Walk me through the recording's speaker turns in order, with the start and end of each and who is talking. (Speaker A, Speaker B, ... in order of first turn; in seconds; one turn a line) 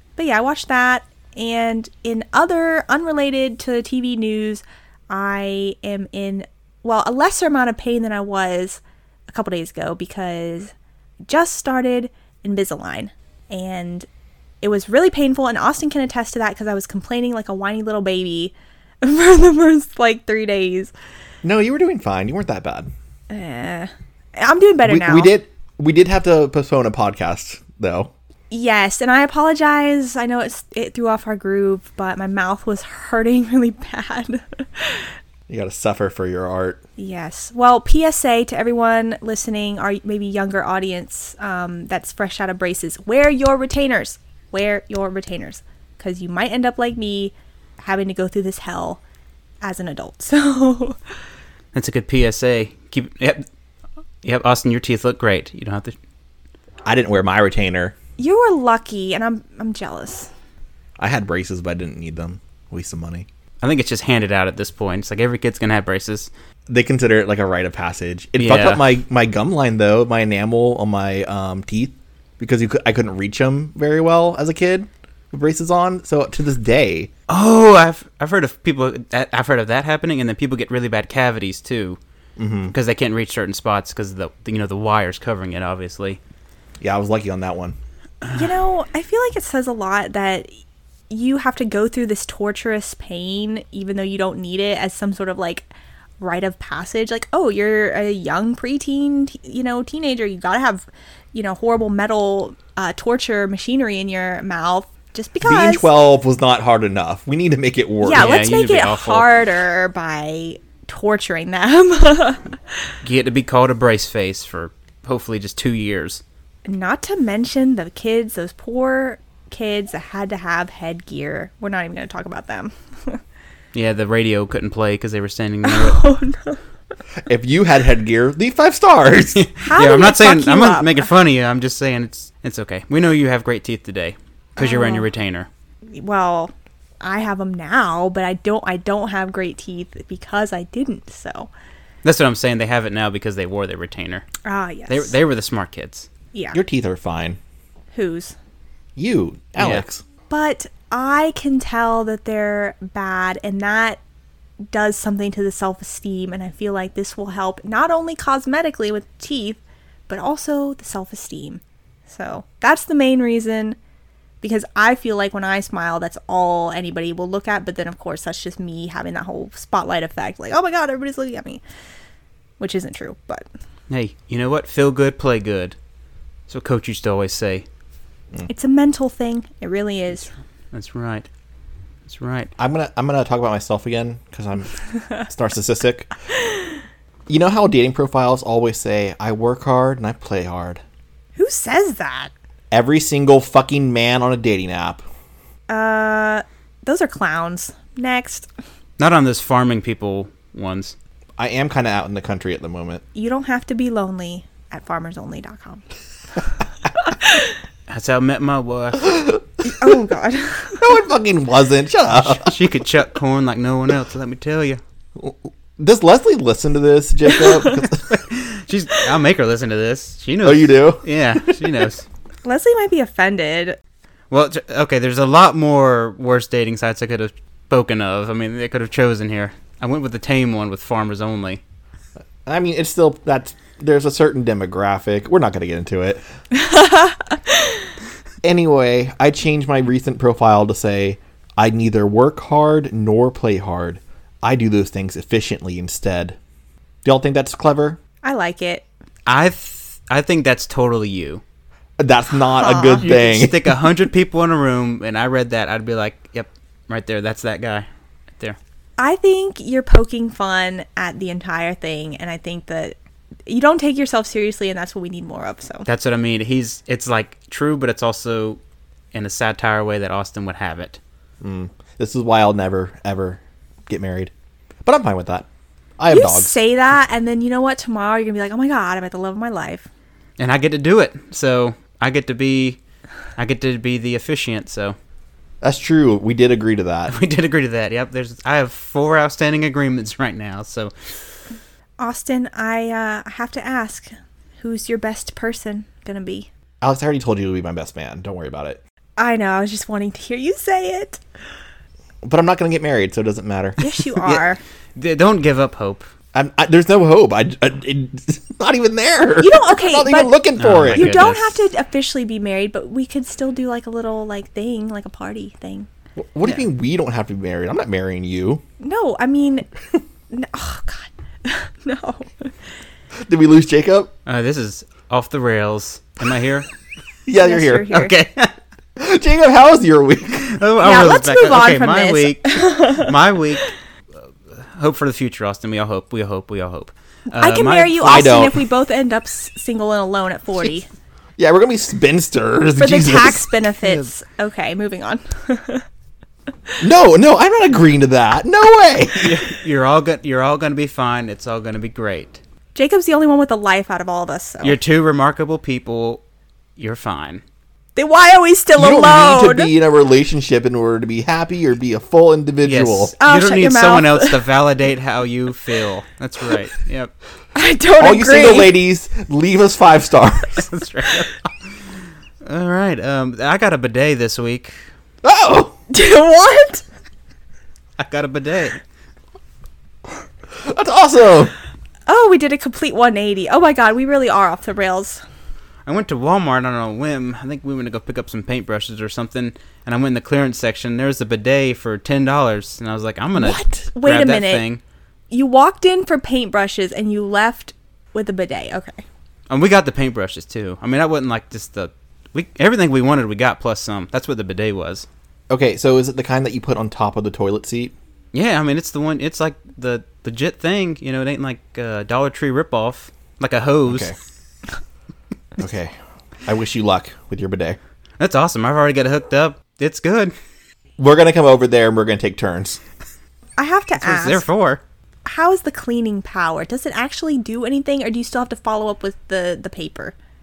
Speaker A: 0.2-10.7
Speaker A: 11.3-14.1
Speaker A: 14.6-20.9
Speaker B: 21.4-22.9
Speaker A: 23.3-25.3
Speaker B: 24.8-28.1
Speaker A: 28.5-35.1
Speaker B: 35.5-36.8
Speaker A: 37.0-49.0
Speaker A: 49.6-51.0
Speaker C: 51.7-53.5
Speaker C: 54.2-55.9
Speaker B: 56.8-57.9
Speaker A: 58.2-60.3
Speaker B: 61.0-63.3
Speaker C: 63.6-66.3
Speaker B: 66.7-77.1
Speaker C: 68.4-68.8
Speaker C: 77.3-82.0
Speaker B: 82.4-82.7
Speaker C: 82.7-86.2
Speaker B: 86.8-87.8
Speaker A: 88.3-90.5
Speaker A: 91.1-95.7
Speaker A: 96.2-105.9
Speaker B: 105.4-108.3
Speaker A: 108.0-112.5
Speaker C: 108.1-109.3
Speaker C: 113.0-116.2
Speaker A: 116.7-123.2
Speaker C: 123.7-126.0
Speaker A: 125.6-126.6
Speaker B: 127.2-129.4
Speaker C: 129.3-135.5
Speaker A: 129.6-131.1
Speaker A: 134.6-135.0
Speaker A: 135.9-141.5
Speaker C: 142.0-144.3
Speaker A: 144.4-145.1
Speaker C: 144.9-146.1
Speaker A: 146.3-146.6
Speaker B: 146.5-147.4
Speaker A: 147.9-148.3
Speaker B: 148.9-150.0
Speaker C: 149.6-149.8
Speaker A: 150.3-154.0
Speaker A: 154.7-163.8
Speaker A: 164.4-171.6
Speaker A: 172.6-173.4
Speaker C: 173.9-175.8
Speaker C: 176.5-177.7
Speaker A: 178.5-180.3
Speaker C: 180.7-181.3
Speaker C: 182.1-182.5
Speaker B: 182.6-184.7
Speaker B: 185.3-186.1
Speaker B: 187.3-190.8
Speaker A: 191.3-192.3
Speaker B: 192.7-195.0
Speaker A: 195.7-198.5
Speaker C: 199.0-200.9
Speaker B: 201.4-203.0
Speaker A: 203.1-205.8
Speaker A: 207.0-207.5
Speaker C: 207.9-209.1
Speaker B: 209.1-209.4
Speaker A: 209.6-210.8
Speaker B: 210.8-212.5
Speaker C: 212.2-214.8
Speaker B: 215.2-218.0
Speaker C: 217.9-222.1
Speaker B: 220.4-221.0
Speaker A: 222.4-223.8
Speaker C: 224.3-231.6
Speaker B: 232.4-236.2
Speaker A: 236.5-237.8
Speaker B: 238.4-246.4
Speaker B: 247.0-248.0
Speaker A: 248.2-248.8
Speaker C: 249.2-251.4
Speaker B: 252.0-253.8
Speaker A: 252.6-253.0
Speaker C: 253.0-257.9
Speaker A: 259.0-262.9
Speaker A: 263.5-265.9
Speaker C: 265.9-268.6
Speaker C: 269.1-271.0
Speaker B: 271.4-274.3
Speaker B: 274.8-275.5
Speaker B: 276.0-276.6
Speaker A: 276.1-279.9
Speaker C: 280.4-282.8
Speaker C: 283.4-285.0
Speaker B: 285.6-287.1
Speaker C: 287.1-290.9
Speaker A: 292.0-296.5
Speaker B: 296.8-298.8
Speaker A: 299.2-301.2
Speaker B: 302.2-303.8
Speaker A: 303.8-304.6
Speaker C: 304.9-306.1
Speaker B: 306.3-311.4
Speaker A: 309.4-310.3
Speaker C: 310.6-311.5
Speaker A: 310.9-315.9
Speaker B: 316.2-318.6
Speaker A: 318.8-319.7
Speaker A: 320.3-322.5
Speaker B: 323.2-324.1
Speaker C: 324.2-326.7
Speaker B: 327.2-327.9
Speaker A: 327.3-328.1
Speaker C: 327.9-328.5
Speaker B: 329.0-330.5
Speaker C: 330.4-333.7
Speaker A: 330.8-333.1
Speaker C: 334.7-338.2
Speaker A: 337.4-340.9
Speaker B: 338.0-338.6
Speaker B: 341.4-343.5
Speaker A: 342.8-345.9
Speaker C: 343.8-344.1
Speaker B: 346.8-349.4
Speaker C: 349.2-352.4
Speaker A: 352.7-354.8
Speaker C: 354.6-356.2
Speaker C: 356.8-357.4
Speaker A: 357.9-359.7
Speaker B: 358.7-363.1
Speaker C: 362.6-367.1
Speaker A: 363.2-364.4
Speaker A: 367.6-368.7
Speaker B: 368.0-370.7
Speaker C: 370.7-371.5
Speaker C: 372.4-374.7
Speaker B: 375.2-375.8
Speaker A: 375.9-376.8
Speaker C: 378.0-378.8
Speaker B: 380.5-381.5
Speaker A: 382.1-385.2
Speaker C: 385.9-394.8
Speaker B: 393.4-393.8
Speaker A: 393.5-394.6
Speaker A: 395.3-399.0
Speaker C: 399.5-405.1
Speaker B: 405.5-407.9
Speaker C: 408.3-414.1
Speaker B: 413.9-414.1
Speaker B: 415.6-415.9
Speaker B: 416.4-417.8
Speaker C: 418.2-420.3
Speaker B: 421.0-422.8
Speaker A: 423.6-424.4
Speaker C: 424.0-424.8
Speaker A: 425.2-430.1